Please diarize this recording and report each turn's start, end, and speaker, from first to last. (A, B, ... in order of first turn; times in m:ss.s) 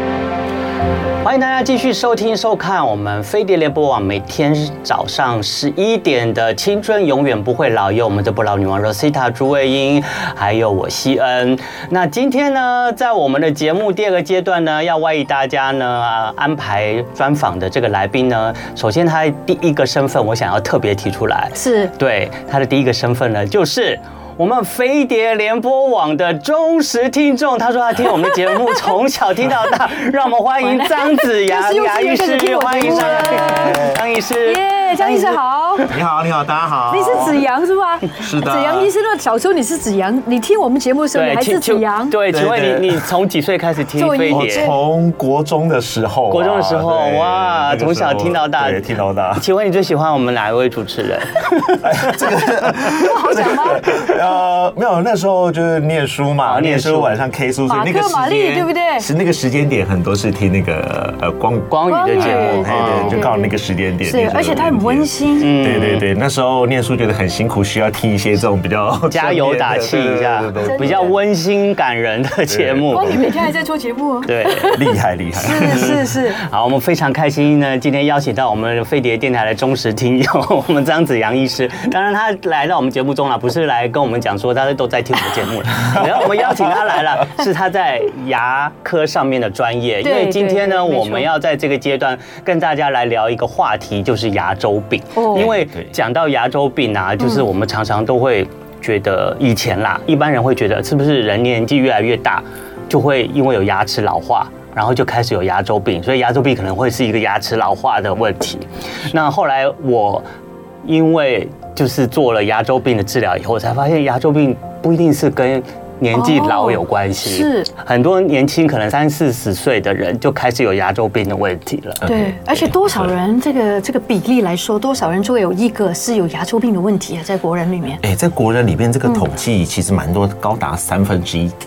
0:01.2-0:35.9 A
0:21.6-0:21.9 B
0:30.6-0:35.8 B
0:35.9-0:37.4 C
0:36.9-0:42.2 B
0:38.2-0:38.9 C
0:41.1-0:44.7 A
0:42.3-0:43.0 C
0:44.0-0:44.8 B
0:44.3-0:49.4 C
0:46.3-0:48.8 A
0:49.4-0:51.9 A
0:51.8-1:11.2 C
0:52.8-0:54.0 B
0:56.4-0:57.1 A
0:57.7-0:59.1 B
1:01.7-1:03.2 A
1:01.9-1:05.5 B
1:05.4-1:06.0 A
1:09.1-1:13.2 A
1:10.6-1:11.1 B
1:12.5-1:13.2 C
1:12.9-1:16.4 B
1:14.2-1:14.8 A
1:14.7-1:16.1 C
1:15.6-1:50.3 A
1:25.8-1:26.9 C
1:30.0-1:31.3 B
1:35.2-1:35.5 B
1:35.3-1:35.9 C
1:50.8-2:02.0 A
1:56.1-1:57.7 B
2:02.0-2:03.1 C
2:02.0-2:08.0 B
2:08.0-2:11.6 C